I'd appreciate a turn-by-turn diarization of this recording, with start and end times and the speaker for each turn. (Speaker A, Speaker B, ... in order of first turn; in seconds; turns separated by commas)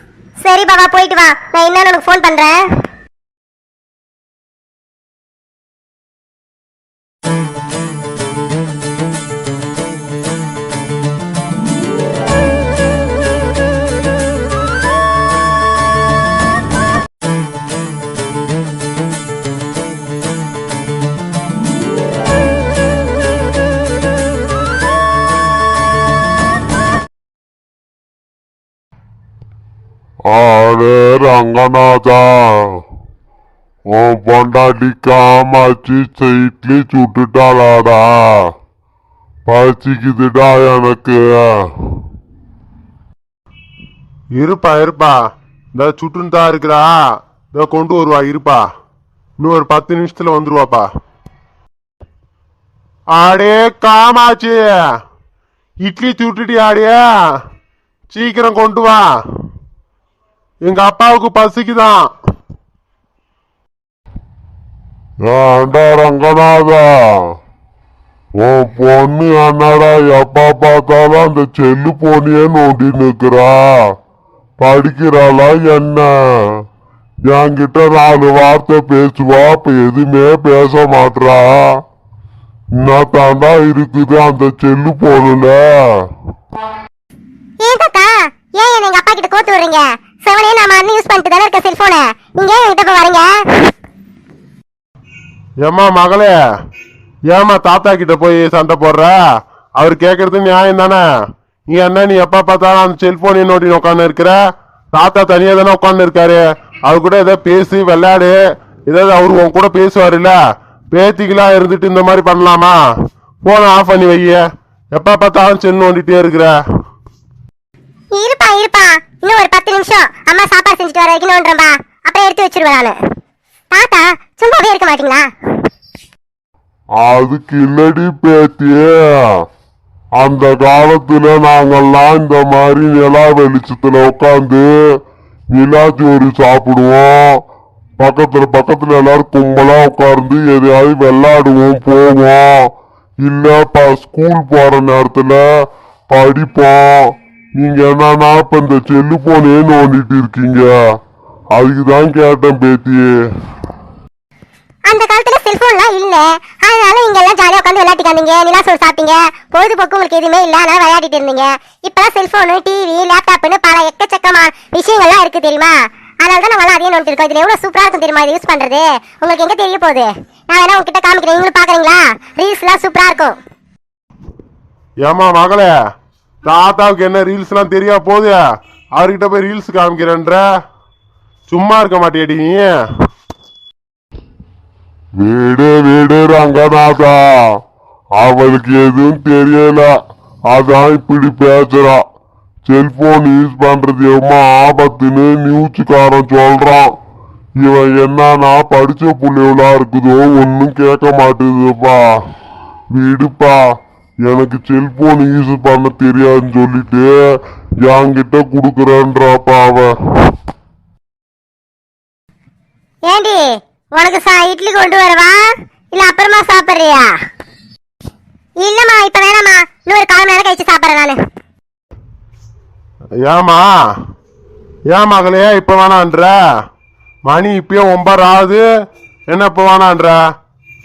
Speaker A: 0.4-2.6, Speaker B: 30.3-32.8, Speaker B: 33.9-38.5, Speaker B: 39.5-41.9, Speaker C: 44.4-45.2, Speaker C: 45.8-47.0, Speaker C: 47.5-48.6, Speaker C: 49.4-50.9, Speaker C: 53.1-54.7, Speaker C: 55.8-57.0, Speaker C: 58.1-59.1, Speaker C: 60.6-62.1, Speaker B: 65.2-67.3, Speaker B: 68.4-73.7, Speaker B: 74.6-76.2, Speaker B: 77.3-81.8, Speaker B: 82.8-86.1, Speaker A: 87.6-93.7, Speaker C: 95.6-96.3, Speaker C: 97.3-99.2, Speaker C: 99.8-101.0, Speaker C: 101.7-104.4, Speaker C: 104.9-108.4, Speaker C: 108.9-110.4, Speaker C: 110.9-112.8, Speaker C: 113.4-116.6, Speaker A: 118.1-123.0, Speaker A: 123.7-125.3, Speaker B: 127.0-129.2, Speaker B: 130.2-134.7, Speaker B: 135.5-137.4, Speaker B: 138.0-142.7, Speaker B: 143.2-145.5, Speaker B: 146.1-150.7, Speaker B: 151.5-153.1, Speaker A: 154.9-173.3, Speaker C: 175.0-175.7, Speaker C: 176.5-178.4, Speaker C: 178.9-180.4, Speaker C: 181.5-182.7, Speaker B: 185.2-187.2, Speaker B: 188.2-189.9, Speaker B: 190.5-192.0, Speaker B: 192.7-197.0, Speaker B: 197.6-202.1, Speaker B: 202.9-203.6, Speaker B: 204.2-207.2, Speaker B: 207.8-210.3, Speaker A: 213.1-217.1, Speaker A: 218.6-221.2, Speaker C: 223.2-223.7, Speaker C: 224.9-226.4, Speaker C: 227.3-228.6, Speaker C: 229.3-230.2